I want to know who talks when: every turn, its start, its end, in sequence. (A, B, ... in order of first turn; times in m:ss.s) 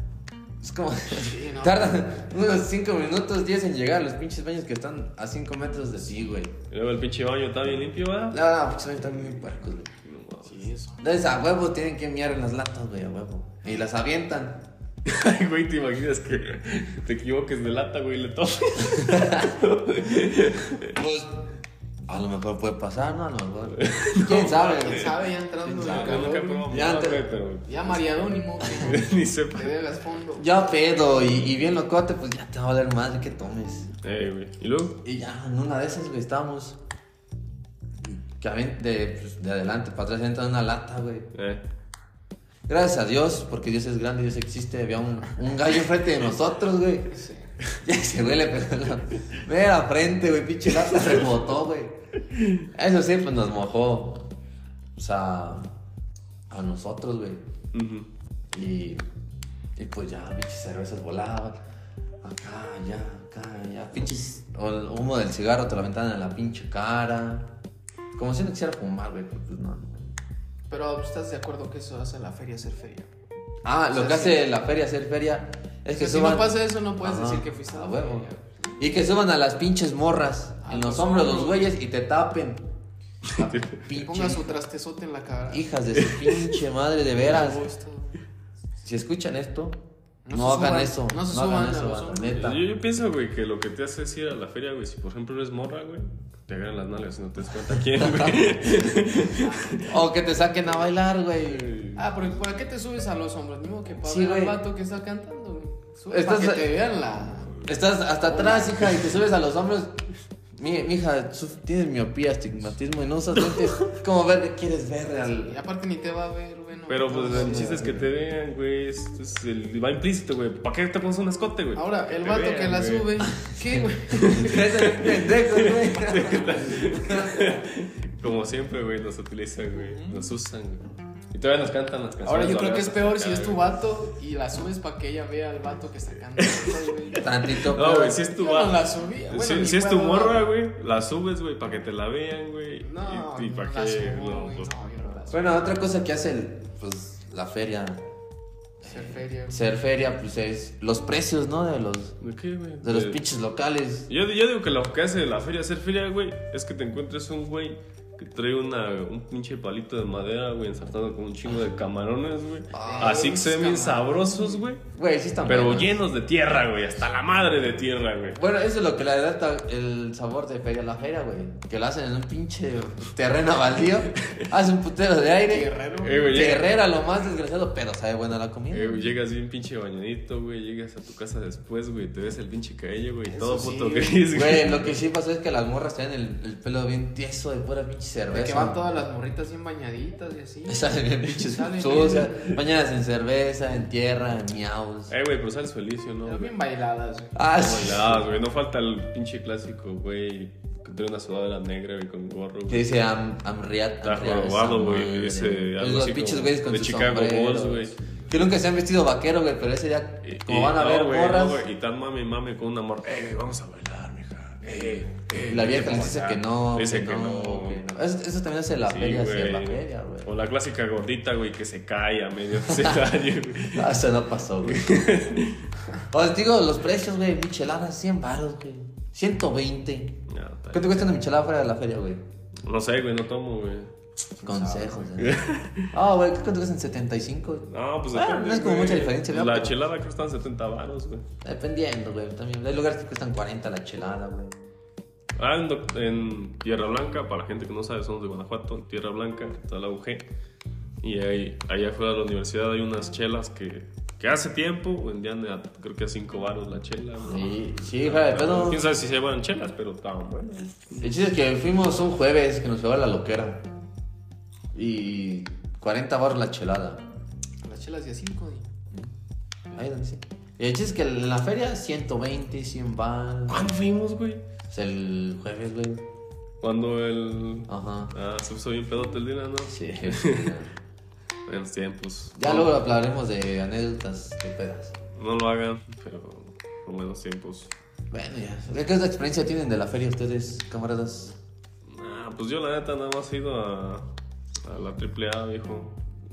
0:00.6-0:06.6 A
0:01.2-0:02.1 B
0:06.7-0:08.4 C
0:08.3-0:09.9 A
0:10.0-0:10.7 C
0:10.4-0:11.0 B
0:11.0-0:14.7 A
0:15.0-0:20.9 C
0:19.1-0:19.4 A
0:20.9-0:21.4 A
0:22.1-0:27.2 A
0:23.7-0:25.1 C
0:24.2-0:26.8 B
0:25.8-0:28.0 C
0:27.6-0:30.8 B
0:28.6-0:29.7 C
0:30.4-0:33.9 A
0:34.0-0:35.0 C
0:35.0-0:36.8 A
0:38.0-0:41.3 A
0:41.3-0:41.6 C
0:42.7-0:47.2 A
0:47.1-0:47.5 B
0:47.8-0:52.0 A
0:52.6-0:54.3 A
0:55.0-0:55.7 A
0:56.5-0:57.4 A
0:57.7-0:58.1 C
0:58.5-0:59.0 A
0:59.8-1:01.6 A
1:02.2-1:07.6 A
1:08.1-1:10.1 A
1:10.7-1:13.1 B
1:13.6-1:22.7 A
1:13.9-1:14.4 B
1:15.9-1:18.9 B
1:20.6-1:21.7 B
1:23.3-1:23.8 C
1:23.4-1:24.6 A
1:23.9-1:25.7 B
1:25.5-1:27.6 A
1:26.0-1:26.6 C
1:27.1-1:28.2 B
1:28.8-1:32.7 A
1:30.2-1:32.4 B
1:32.3-1:39.9 C
1:37.9-1:38.5 A
1:39.2-1:40.9 B
1:39.8-1:41.8 A
1:41.4-1:42.1 C
1:41.9-1:47.7 B
1:44.0-1:44.6 A
1:46.1-1:46.7 A
1:47.6-1:49.9 A
1:48.3-1:48.9 B
1:50.6-1:55.6 A
1:55.2-1:58.1 B
1:56.9-2:03.1 C
1:57.3-1:57.9 A
2:01.7-2:04.6 B
2:03.4-2:07.4 A
2:04.1-2:13.8 C
2:09.7-2:10.3 B
2:12.2-2:17.3 B
2:16.4-2:24.7 C
2:17.2-2:18.2 A
2:18.0-2:20.5 B
2:22.8-2:25.6 B
2:25.3-2:28.0 A
2:28.8-2:32.2 A
2:28.8-2:29.6 B
2:32.2-2:33.2 C
2:32.8-2:34.1 A
2:34.1-2:44.8 C
2:42.7-2:43.3 A
2:42.7-2:44.6 B
2:44.9-2:46.0 A
2:45.4-2:48.4 C
2:48.3-2:55.7 A
2:54.1-2:54.5 C
2:55.5-2:56.5 B
2:56.0-2:56.7 C
2:56.2-2:59.2 A
2:58.7-3:05.0 C
3:03.2-3:04.2 B
3:04.3-3:08.8 A
3:08.3-3:12.6 B
3:10.7-3:15.1 A
3:15.1-3:16.6 C
3:16.2-3:17.4 B
3:17.3-3:18.3 A
3:17.6-3:22.9 C
3:22.7-3:31.6 A
3:24.0-3:28.1 C
3:30.2-3:37.9 C
3:35.4-3:40.3 A
3:38.8-3:44.0 C
3:42.7-3:43.0 A
3:43.7-3:44.9 A
3:44.6-3:45.7 C
3:46.1-3:52.2 A
3:50.3-3:51.1 C
3:52.6-3:53.9 C
3:54.4-3:55.1 B
3:54.4-3:59.8 A
3:55.2-3:55.9 C
3:57.7-4:01.2 C
4:01.4-4:04.7 A
4:05.4-4:10.2 C
4:11.0-4:21.2 C
4:17.2-4:18.8 A
4:21.0-4:23.7 A
4:24.7-4:27.0 A
4:27.6-4:28.7 B
4:29.7-4:33.7 A
4:33.5-4:34.4 C
4:34.7-4:36.0 A
4:36.6-4:40.6 C
4:37.7-4:38.1 A
4:39.7-4:40.7 A
4:41.5-4:42.7 C
4:42.4-4:45.0 A
4:45.1-4:47.7 C
4:48.1-4:51.4 A
4:51.9-4:54.1 C
4:54.6-4:56.0 C